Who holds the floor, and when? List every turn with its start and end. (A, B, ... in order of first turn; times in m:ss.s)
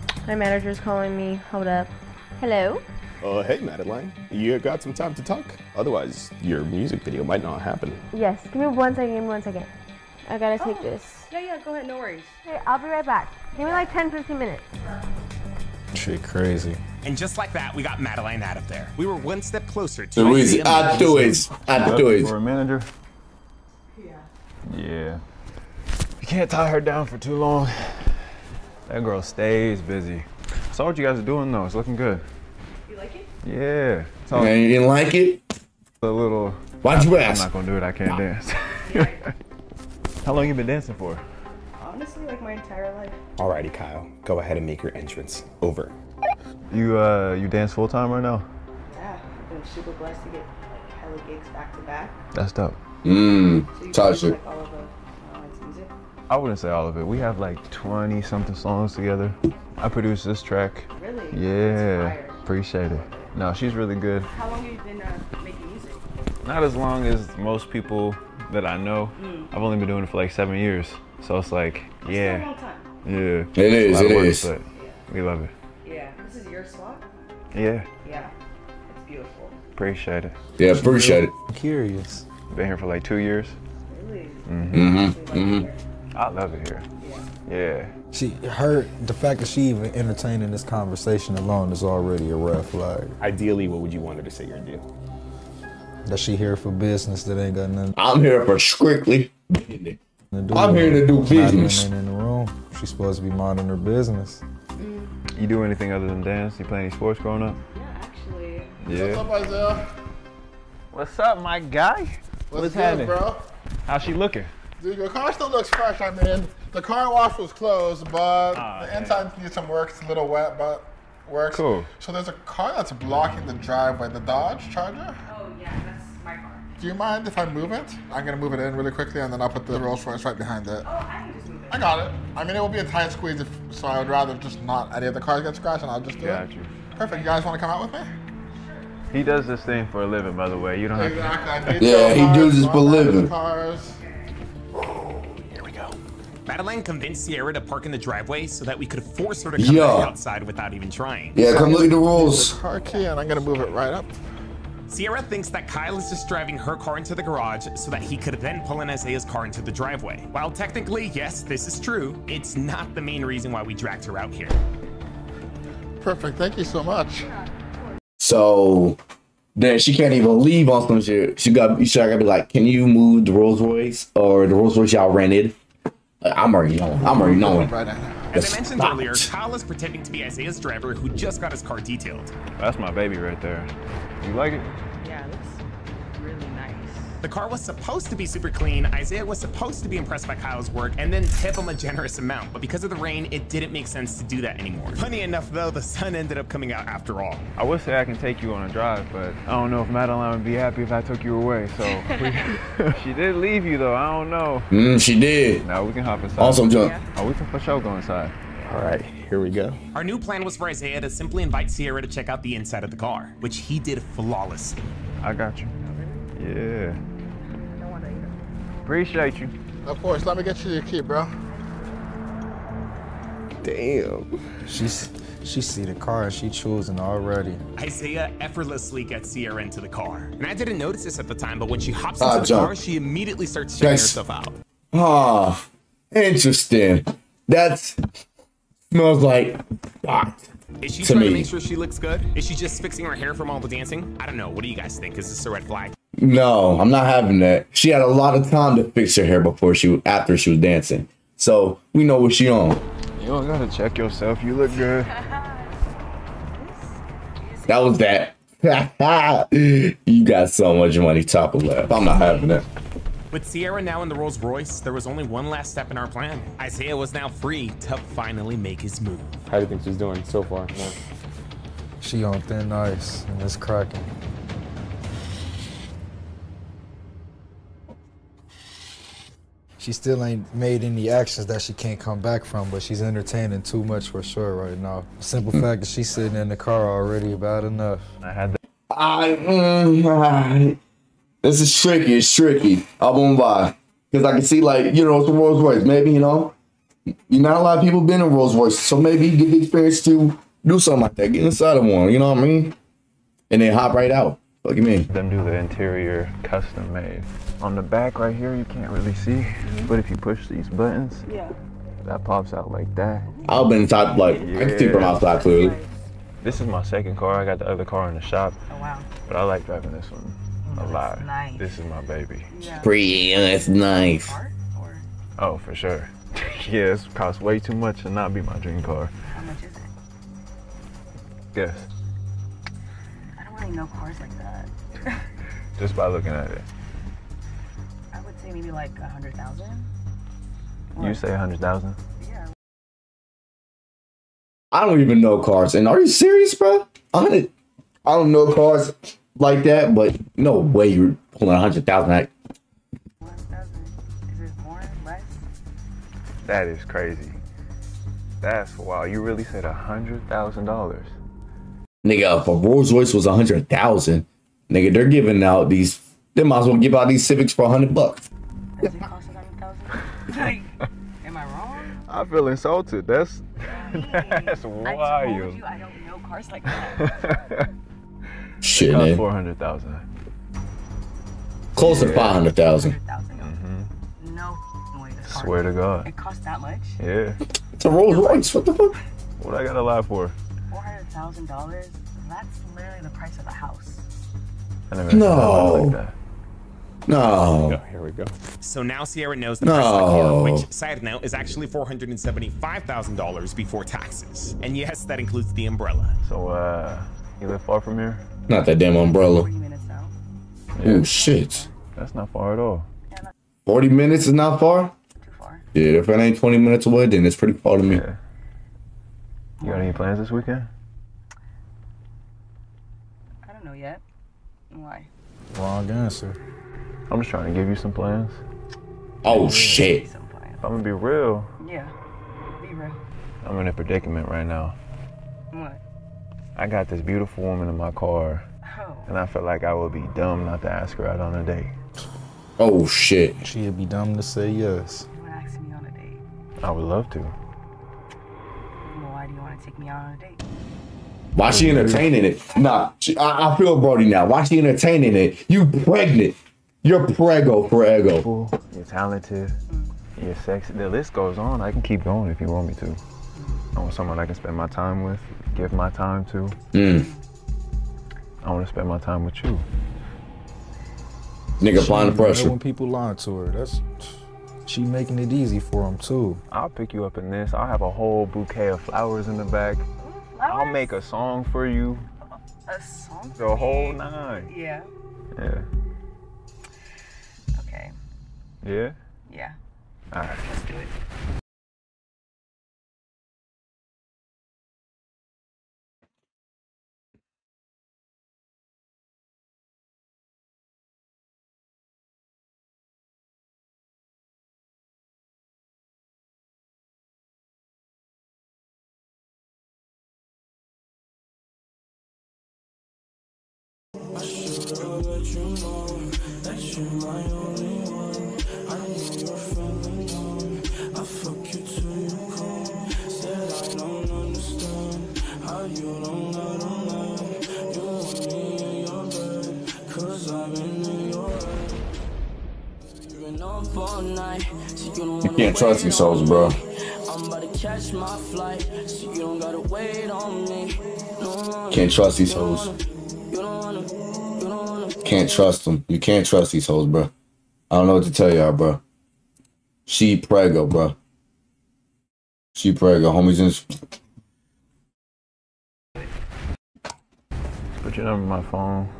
0:00.2-0:02.8 A
0:03.2-0:08.0 B
0:08.1-0:09.7 A
0:10.2-0:11.3 A
0:10.6-0:12.3 C
0:12.4-0:14.6 A
0:13.6-0:13.9 C
0:15.9-0:16.8 D
0:17.0-0:21.3 E
0:20.2-0:22.3 F
0:21.0-0:22.9 G
0:23.9-0:24.3 C
0:24.7-0:25.2 G
0:26.2-0:28.2 G
0:28.9-0:32.2 G
0:32.9-0:33.3 C
0:33.4-0:34.6 G
0:34.3-0:35.4 F
0:36.0-0:39.3 G
0:36.8-0:37.5 F
0:38.8-0:39.3 C
0:40.2-0:41.2 G
0:41.8-0:43.2 C
0:43.4-0:45.9 B
0:46.7-0:48.5 G
0:48.9-0:52.2 C
0:52.3-0:52.8 G
0:53.0-0:54.4 F
0:53.7-0:55.9 C
0:56.3-1:04.3 G
1:01.0-1:03.3 C
1:04.3-1:06.0 C
1:06.4-1:12.5 G
1:09.2-1:09.5 C
1:12.0-1:12.9 C
1:13.0-1:15.5 G
1:13.5-1:14.5 F
1:14.7-1:15.0 C
1:15.8-1:17.0 C
1:17.5-1:17.9 G
1:18.0-1:18.3 C
1:18.9-1:19.6 C
1:19.8-1:20.4 G
1:20.6-1:21.3 F
1:20.7-1:22.2 D
1:22.5-1:23.6 G
1:23.9-1:25.8 C
1:24.5-1:25.1 G
1:24.7-1:25.7 F
1:26.1-1:26.9 G
1:27.0-1:27.2 C
1:27.5-1:27.9 G
1:28.1-1:33.2 D
1:33.2-1:34.8 B
1:36.1-1:37.9 D
1:38.0-1:40.0 F
1:40.3-1:44.4 D
1:40.5-1:41.9 F
1:44.8-1:45.1 C
1:45.4-1:47.6 G
1:47.7-1:48.8 C
1:48.8-1:49.3 G
1:48.9-1:49.8 H
1:50.9-1:53.2 G
1:52.5-1:53.4 H
1:53.9-1:54.5 G
1:54.8-2:05.2 H
1:58.5-1:59.2 G
2:01.5-2:01.9 G
2:05.2-2:06.7 C
2:06.8-2:10.9 H
2:10.8-2:12.0 C
2:11.7-2:16.4 H
2:16.2-2:16.7 G
2:17.0-2:18.1 H
2:17.0-2:17.4 C
2:18.5-2:18.9 C
2:19.1-2:21.8 G
2:20.9-2:24.0 H
2:21.8-2:23.3 F
2:24.9-2:26.0 B
2:26.5-2:31.4 E
2:29.6-2:30.1 F
2:31.3-2:32.6 F
2:31.4-2:34.2 H
2:32.8-2:33.5 C
2:34.9-2:44.6 E
2:46.0-2:47.3 H
2:48.2-2:49.0 F
2:49.6-2:55.6 F
2:56.2-2:57.7 F
2:57.0-2:58.3 H
2:58.3-2:59.3 F
2:58.3-3:02.3 E
3:02.6-3:03.7 G
3:04.2-3:04.7 G
3:05.0-3:05.6 C
3:06.1-3:07.1 C
3:07.2-3:17.4 E
3:17.6-3:24.7 G
3:24.7-3:25.6 F
3:25.6-3:28.4 G
3:26.4-3:27.0 F
3:26.7-3:27.0 C
3:28.6-3:29.8 B
3:29.9-3:34.8 E
3:35.2-3:35.7 G
3:35.8-3:36.2 C
3:36.4-3:37.0 G
3:37.4-3:38.4 C
3:38.8-3:39.5 G
3:39.9-3:41.3 H
3:43.6-3:44.3 B
3:44.7-3:47.6 D
3:47.8-3:54.6 E
3:52.2-3:52.7 F
3:53.8-3:54.2 F
3:54.9-3:58.0 F
3:58.9-4:00.5 F
4:00.8-4:06.0 E
4:01.0-4:01.5 F
4:06.2-4:12.8 F
4:13.2-4:15.1 G
4:15.1-4:15.6 C
4:16.5-4:18.0 C
4:17.7-4:22.6 F
4:21.9-4:22.6 C
4:23.3-4:29.4 E
4:29.5-4:31.0 B
4:32.0-4:34.1 D
4:39.8-4:48.1 D
4:48.2-4:48.6 G
4:48.9-4:50.8 F
4:51.4-4:56.5 F
4:57.3-5:02.8 F
5:03.5-5:05.1 F
5:05.1-5:11.3 G
5:09.6-5:09.9 C
5:11.2-5:11.6 C
5:12.0-5:13.3 G
5:13.2-5:13.7 C
5:13.4-5:15.8 F
5:14.4-5:15.4 G
5:15.0-5:16.0 C
5:16.4-5:18.6 G
5:18.7-5:19.1 C
5:19.2-5:22.5 G
5:20.6-5:21.6 C
5:22.5-5:25.1 C
5:22.8-5:24.4 F
5:25.4-5:29.1 G
5:29.3-5:29.9 C
5:31.5-5:31.9 G
5:33.4-5:35.2 C
5:35.8-5:36.6 G
5:38.1-5:39.9 C
5:40.9-5:41.2 C
5:41.0-5:42.0 G
5:42.2-5:42.5 C
5:44.7-5:47.5 F
5:48.0-5:52.3 F
5:53.2-5:55.4 C
5:56.4-5:57.4 G
5:58.4-6:01.1 G
6:02.0-6:08.3 F
6:08.8-6:12.0 C
6:12.1-6:15.6 G
6:13.6-6:17.4 C
6:17.0-6:17.6 G
6:18.6-6:19.2 F
6:18.7-6:20.1 G
6:21.8-6:23.0 F
6:21.8-6:22.4 G
6:22.1-6:23.5 C
6:23.4-6:23.9 G
6:24.2-6:27.0 C
6:25.2-6:26.1 G
6:27.0-6:27.4 G
6:27.8-6:29.0 F
6:27.9-6:28.5 C
6:29.4-6:30.4 G
6:30.7-6:34.1 C
6:34.9-6:36.1 G
6:35.1-6:36.0 F
6:37.1-6:37.8 F
6:37.6-6:38.3 B
6:38.6-6:46.2 E
6:39.6-6:40.6 F
6:46.2-6:48.2 G
6:48.5-6:49.5 F
6:49.0-6:50.1 C
6:50.8-6:51.1 G
6:50.8-6:51.6 F
6:50.9-6:51.8 C
6:52.0-6:52.9 G
6:53.6-6:54.9 F
6:55.2-6:55.6 C
6:55.8-6:58.0 F
6:57.9-6:58.2 G
6:59.6-7:00.1 C
6:59.6-7:00.7 G
7:03.4-7:04.0 C
7:04.7-7:05.1 C
7:05.5-7:06.4 D
7:07.1-7:08.4 G
7:09.2-7:10.0 F
7:09.3-7:09.9 G
7:09.3-7:10.6 C
7:10.6-7:11.5 G
7:11.6-7:11.9 C
7:12.6-7:13.0 C
7:13.4-7:14.8 G
7:15.5-7:15.8 C
7:16.6-7:18.4 G
7:18.6-7:19.1 C
7:19.1-7:21.8 G
7:22.6-7:23.4 F
7:23.4-7:25.1 D
7:25.1-7:26.2 C
7:26.6-7:27.4 G
7:28.8-7:30.4 C
7:31.3-7:38.2 F
7:31.5-7:32.1 G
7:38.1-7:39.6 G
7:40.2-7:43.0 G
7:43.3-7:43.6 C
7:43.8-7:46.6 G
7:46.7-7:47.1 F
7:46.8-7:47.2 C
7:48.4-7:49.7 G
7:51.6-7:52.5 F
7:51.7-7:53.8 D
7:54.7-7:56.4 D
7:56.5-7:59.9 G
8:00.0-8:00.9 C
8:00.5-8:02.1 G
8:02.7-8:04.9 C
8:03.4-8:04.5 G
8:05.4-8:05.7 G
8:07.5-8:08.0 C
8:08.6-8:09.0 G
8:09.3-8:09.6 C
8:10.1-8:10.4 G
8:10.4-8:10.9 C
8:34.1-8:51.8 I
8:53.0-9:05.5 I
8:55.3-8:56.5 F
9:01.7-9:02.7 F
9:05.0-9:07.1 F
9:07.7-9:08.8 F
9:09.9-9:11.0 F
9:12.5-9:13.8 F
9:17.8-9:18.9 G